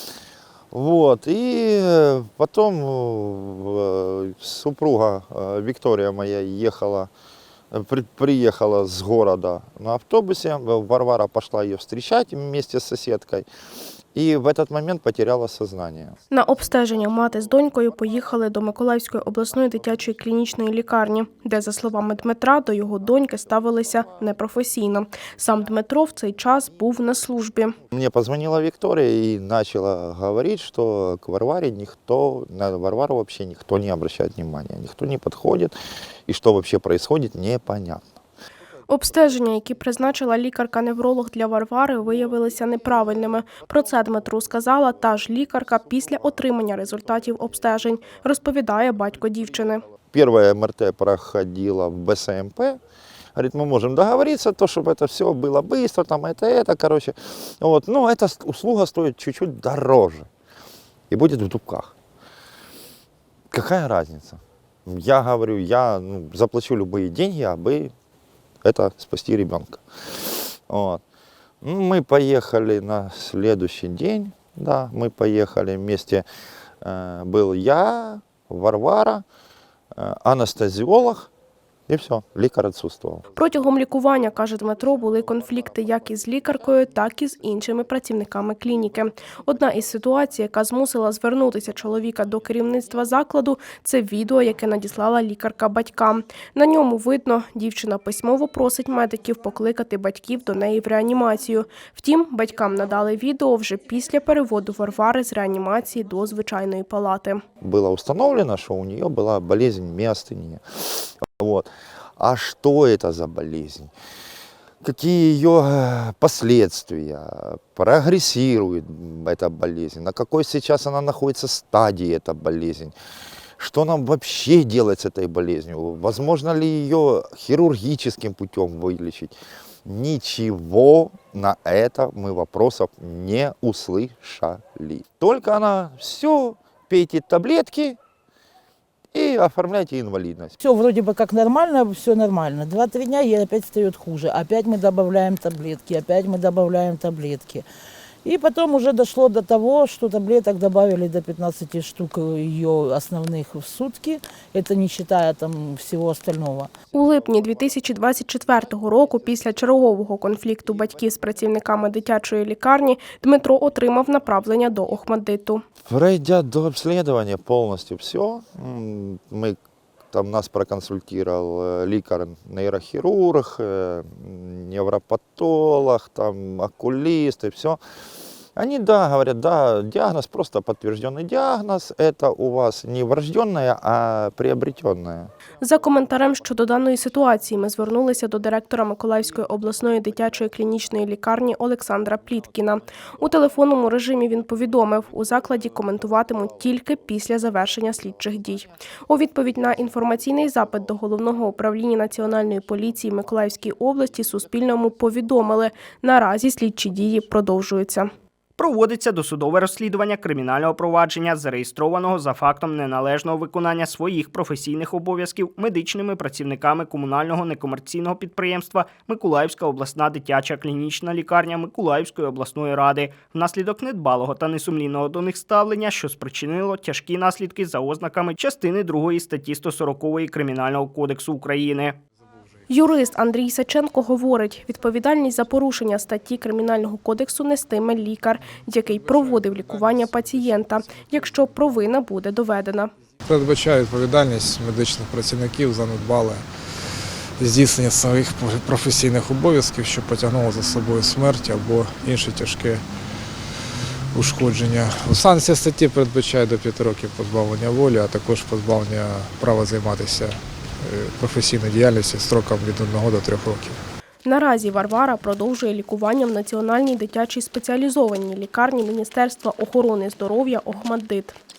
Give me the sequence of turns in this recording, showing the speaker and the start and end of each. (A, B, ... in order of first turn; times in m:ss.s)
0:00.7-0:07.1 A
0:07.7-0:13.5 A
0:14.1-0:16.2 A
0:16.3-0:27.8 B
0:27.9-0:35.7 A
0:36.3-0:38.0 A
0:38.9-0:49.8 B
0:50.1-0:52.8 A
0:53.3-1:00.3 A
1:01.1-1:01.9 A
1:03.5-1:07.9 A
1:08.6-1:11.0 A
1:11.6-1:16.2 A
1:16.8-1:19.2 A
1:19.9-1:21.3 A
1:21.9-1:23.2 A
1:23.4-1:47.4 B
1:47.6-1:53.9 A
1:54.8-2:02.9 A
2:03.6-2:18.0 A
2:19.1-2:20.5 A
2:20.6-2:27.6 C
2:28.2-2:36.7 C
2:36.9-2:45.6 B
2:45.8-2:49.6 A
2:50.1-2:57.8 A
2:58.6-3:05.3 A
3:05.6-3:28.1 B
3:28.6-3:52.0 D
3:52.7-4:02.9 B
3:59.1-3:59.9 E
4:03.2-4:06.4 E
4:07.4-4:12.8 E
4:14.1-4:23.8 E
4:24.2-4:31.4 B